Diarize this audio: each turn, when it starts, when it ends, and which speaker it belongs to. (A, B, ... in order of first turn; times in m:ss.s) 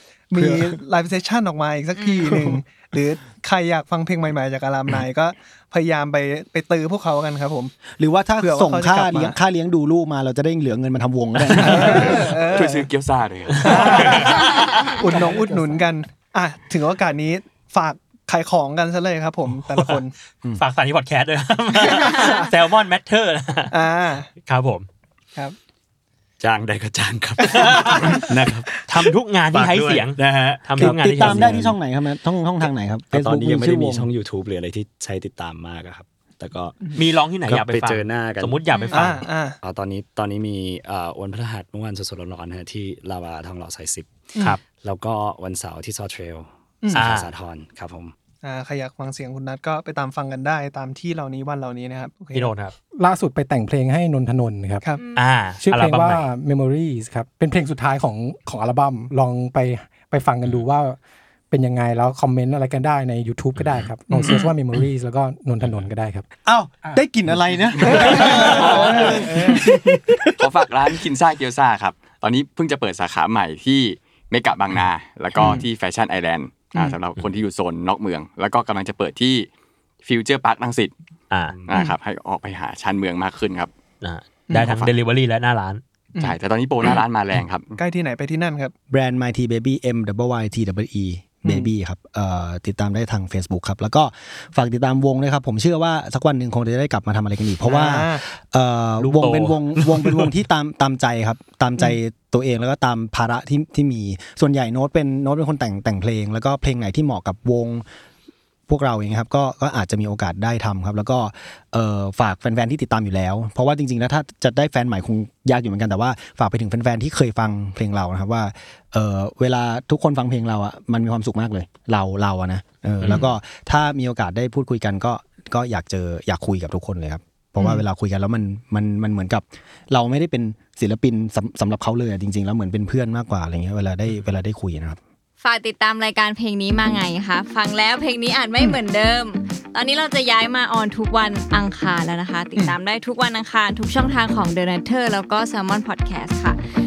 0:00.3-0:07.8 A
0:00.4-0:00.6 B
0:02.0-0:02.3 C
0:08.0-0:12.4 B
0:08.4-0:09.4 A
0:11.5-0:12.9 A
0:12.5-0:14.3 D
0:13.6-0:14.9 E
0:13.6-0:20.1 A
0:14.4-0:14.9 C
0:15.0-0:15.9 F
0:19.7-0:20.0 E
0:20.6-0:23.8 E
0:21.8-0:22.5 A
0:23.7-0:24.3 A
0:24.4-0:24.9 E
0:26.4-0:31.8 G
0:27.5-0:28.2 E
0:27.6-0:28.2 A
0:28.8-0:31.6 E
0:30.8-0:34.1 B
0:33.1-0:36.8 G
0:37.0-0:39.2 E
0:37.4-0:38.6 G
0:38.7-0:39.1 C
0:38.9-0:39.6 A
0:39.6-0:48.1 G
0:46.8-0:47.1 A
0:46.9-0:47.3 E
0:48.4-0:52.5 A
0:52.3-0:52.7 E
0:53.0-0:54.8 F
0:54.9-0:55.2 C
0:55.1-0:56.2 E
0:55.6-1:01.0 F
1:01.5-1:06.2 F
1:03.6-1:03.8 E
1:04.1-1:04.5 A
1:06.4-1:10.3 B
1:07.8-1:10.0 A
1:08.2-1:09.1 E
1:10.4-1:19.5 D
1:15.3-1:15.6 A
1:16.7-1:17.0 A
1:20.0-1:20.9 D
1:21.3-1:21.6 E
1:21.7-1:23.7 D
1:24.0-1:25.8 E
1:24.5-1:24.8 A
1:24.6-1:24.9 D
1:26.2-1:27.7 D
1:27.8-1:28.7 A
1:28.9-1:47.8 B
1:31.4-1:31.7 A
1:37.6-1:38.2 A
1:39.0-1:40.0 E
1:48.7-2:15.0 B
2:03.0-2:03.3 E
2:07.6-2:07.8 A
2:15.4-2:26.6 C